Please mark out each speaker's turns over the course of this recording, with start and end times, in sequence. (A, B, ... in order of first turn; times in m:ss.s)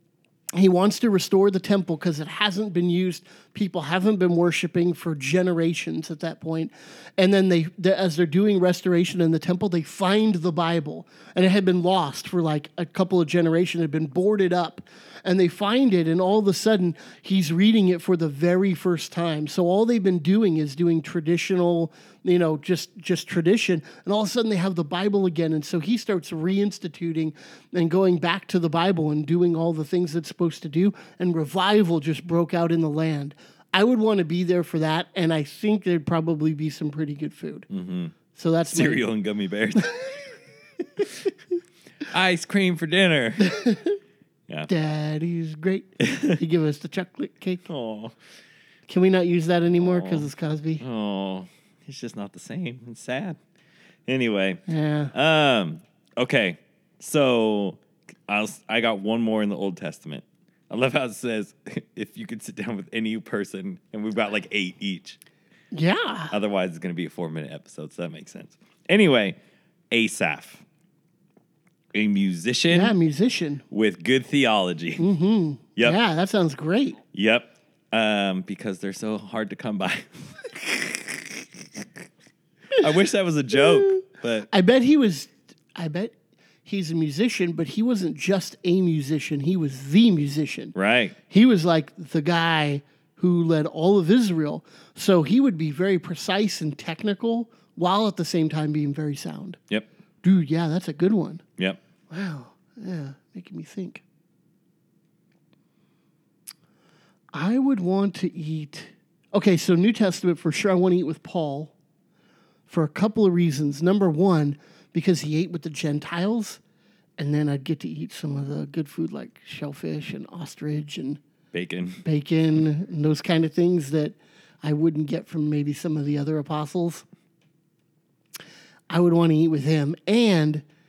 0:00.6-0:37.7 A
0:37.7-0:38.2 B
0:38.3-0:39.0 A
0:38.7-0:39.9 B
0:42.1-0:43.5 B
0:43.4-0:44.0 A
0:44.7-0:47.7 A
0:46.0-0:46.4 B
0:47.7-0:48.2 B
0:48.9-0:50.8 A
0:49.7-0:50.3 B
0:50.8-0:53.4 B
0:54.1-0:54.6 B
0:54.7-0:55.1 A
0:55.1-1:05.2 B
1:05.7-1:06.3 A
1:06.3-1:09.4 B
1:09.9-1:10.6 B
1:11.9-1:12.9 B
1:12.7-1:13.6 A
1:13.7-1:15.0 B
1:15.0-1:17.0 A
1:17.1-1:21.8 B
1:22.8-1:24.5 B
1:24.5-1:30.7 A
1:30.8-1:31.2 B
1:31.3-1:39.6 A
1:40.2-1:41.4 A
1:42.1-1:44.0 A
1:47.3-1:51.7 A
1:52.7-1:56.6 A
1:57.2-2:01.2 A
2:01.5-2:02.0 B
2:02.0-2:07.0 A
2:08.9-2:10.6 A